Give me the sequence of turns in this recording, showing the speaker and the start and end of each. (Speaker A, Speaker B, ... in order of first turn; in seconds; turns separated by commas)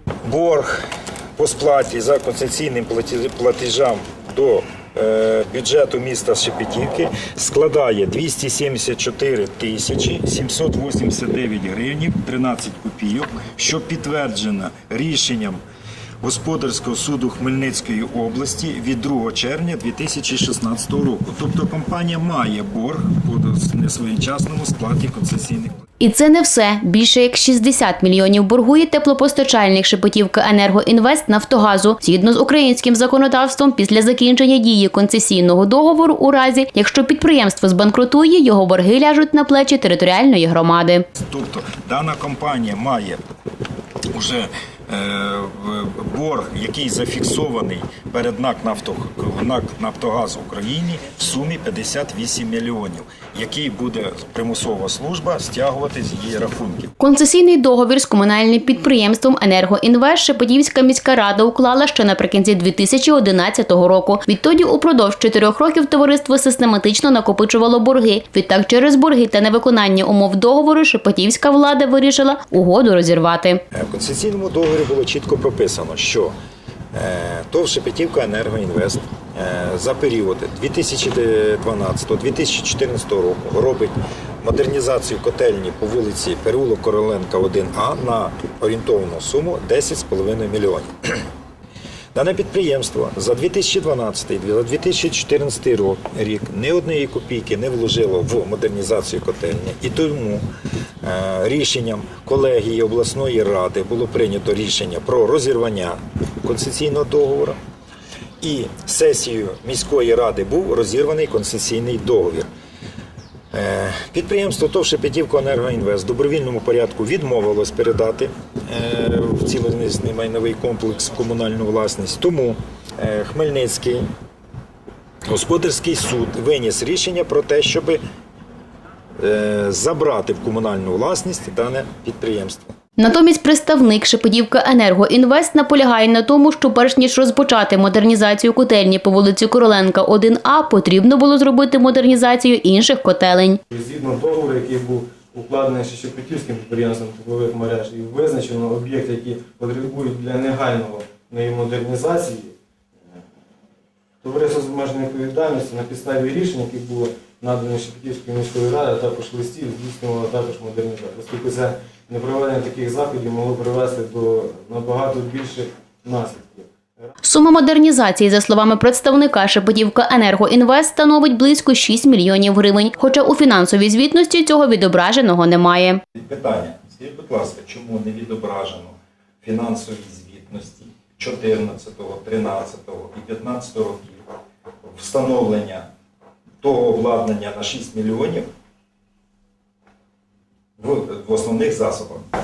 Speaker A: 0.2-0.8, Speaker A: 1.4-15.6, Speaker A: 16.2-25.7, Speaker B: 26.0-41.0, Speaker A: 41.1-43.2, Speaker A: 44.1-56.9, Speaker B: 57.0-73.6, Speaker A: 73.7-76.3, Speaker A: 76.9-91.3, Speaker A: 92.1-100.5, Speaker A: 101.0-107.6, Speaker A: 108.4-112.5, Speaker A: 113.5-124.1, Speaker A: 125.3-128.0, Speaker A: 129.2-132.7, Speaker B: 133.0-143.6, Speaker C: 143.7-152.5, Speaker C: 154.2-167.1, Speaker B: 167.2-176.0, Speaker A: 176.1-184.2, Speaker A: 184.8-185.9, Speaker A: 186.6-188.5, Speaker A: 190.8-192.3